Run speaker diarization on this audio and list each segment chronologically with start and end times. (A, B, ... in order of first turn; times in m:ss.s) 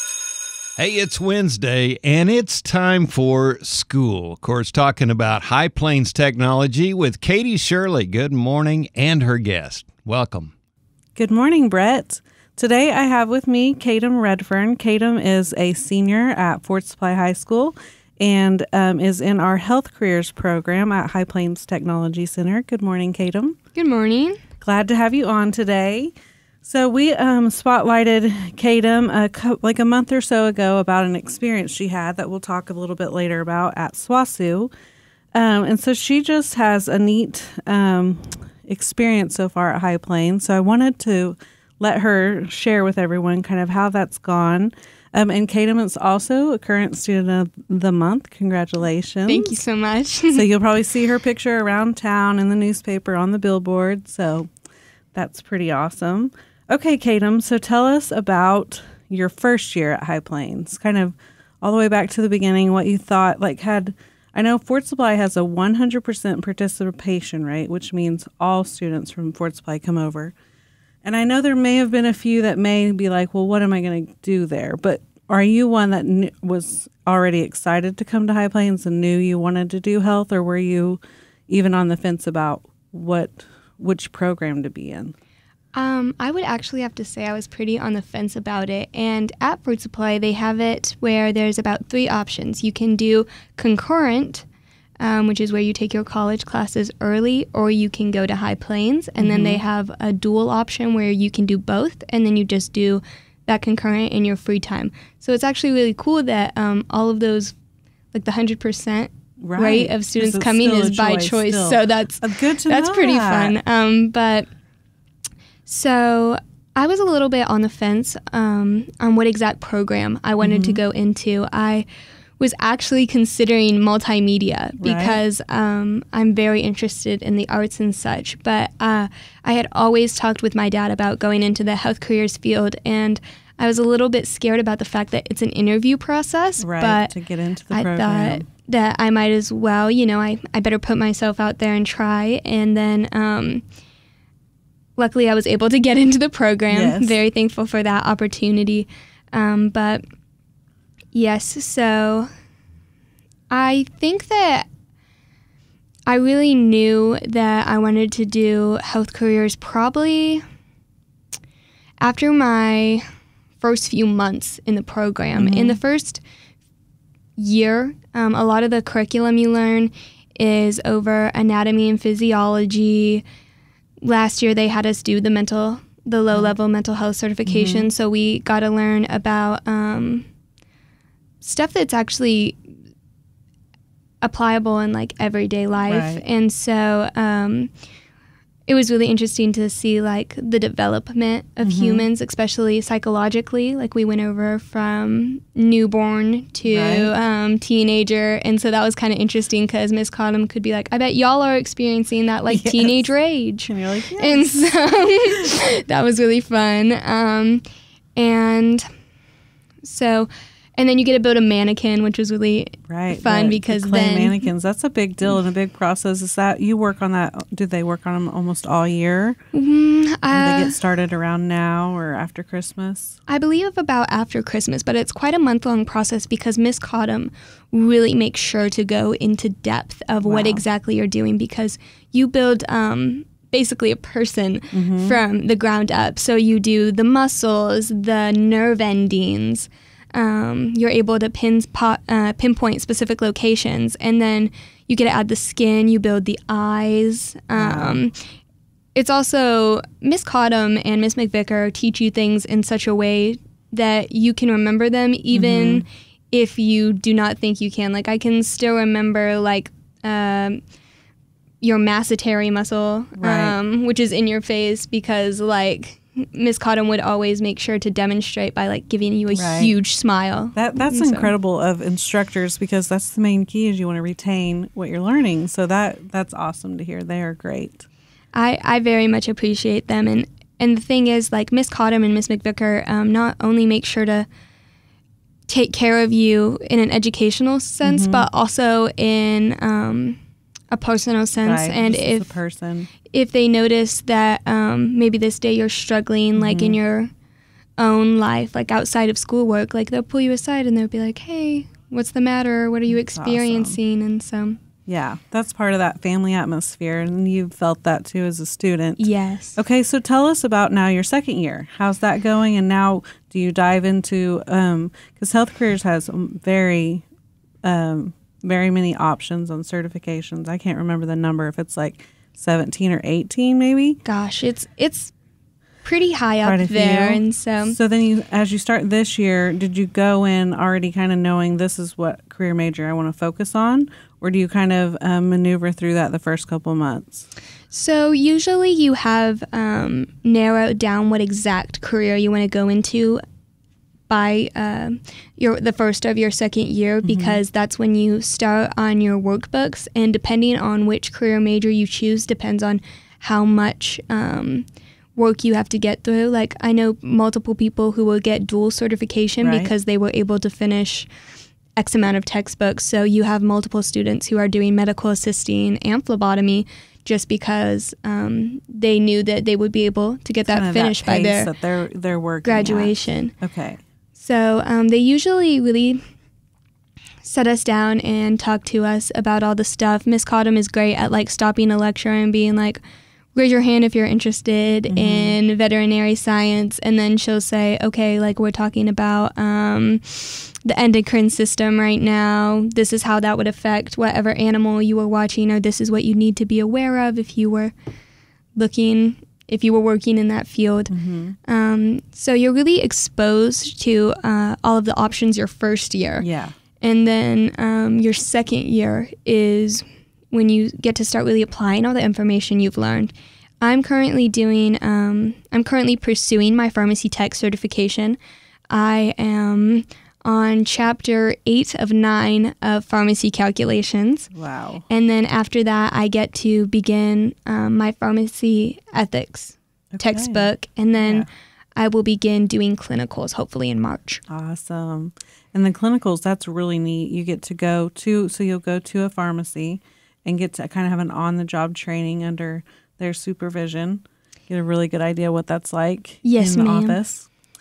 0:00.8-0:10.5 A
0:11.2-0:23.6 B
0:23.7-0:24.4 C
0:24.6-0:26.1 B
0:26.6-0:34.7 B
0:35.3-0:49.6 B
0:49.2-0:50.5 C
0:50.3-0:54.5 B
0:55.1-1:10.3 B
1:11.0-1:25.1 B
1:25.7-1:34.4 C
1:35.0-1:47.5 C
1:39.2-1:39.6 B
1:48.1-1:54.5 C
1:49.4-1:53.6 B
1:55.6-2:01.8 C
2:00.4-2:00.8 B
2:02.4-2:17.1 C
2:04.8-2:05.2 B
2:16.6-2:18.5 B
2:17.7-2:23.6 C
2:25.0-2:30.0 C
2:26.7-2:27.2 B
2:31.1-2:32.3 C
2:33.5-2:34.6 C
2:36.1-2:40.4 C
2:42.0-2:43.0 C
2:43.6-2:46.2 C
2:45.3-2:45.8 B
2:47.4-2:53.2 C
2:54.0-3:00.3 C
2:57.4-2:57.9 B
3:01.4-3:02.6 C
3:04.2-3:07.7 C
3:05.8-3:06.2 B
3:08.6-3:27.6 C
3:11.6-3:12.1 B
3:16.7-3:17.1 B
3:22.5-3:23.1 B
3:23.7-3:24.5 B
3:28.2-3:28.8 C
3:29.8-3:34.5 C
3:32.9-3:39.4 B
3:39.5-3:40.8 C
3:40.3-3:43.2 B
3:43.3-4:08.2 C
3:50.2-3:50.6 B
3:54.7-3:55.2 B
4:07.5-4:08.0 B
4:08.9-4:20.6 C
4:15.3-4:15.8 B
4:21.6-4:31.3 C
4:23.2-4:23.6 B
4:29.3-4:29.7 B
4:30.5-4:37.8 B
4:38.3-4:44.3 C
4:45.5-4:50.2 C
4:47.8-4:48.3 B
4:50.7-4:52.4 C
4:51.4-4:52.9 B
4:53.1-4:57.1 C
4:56.4-4:56.8 B
4:57.8-5:04.6 C
5:02.9-5:03.8 B
5:04.8-5:17.0 B
5:09.0-5:09.6 C
5:17.6-5:24.0 B
5:24.0-5:25.1 C
5:25.8-5:27.8 C
5:26.4-5:37.2 B
5:37.7-5:43.2 C
5:44.1-6:01.1 C
5:47.0-5:47.4 B
5:59.4-5:59.7 B
6:01.8-6:11.5 C
6:10.4-6:13.8 B
6:12.4-6:13.3 C
6:14.1-6:16.0 C
6:17.2-6:22.8 C
6:23.3-6:37.7 C
6:24.9-6:25.4 B
6:38.5-6:46.2 C
6:40.9-6:41.4 B
6:46.2-6:46.5 B
6:46.8-6:58.2 C
6:58.7-7:04.3 C
7:04.3-7:04.8 B
7:04.9-7:14.2 C
7:09.9-7:11.3 B
7:14.3-7:27.3 B
7:26.2-7:27.0 C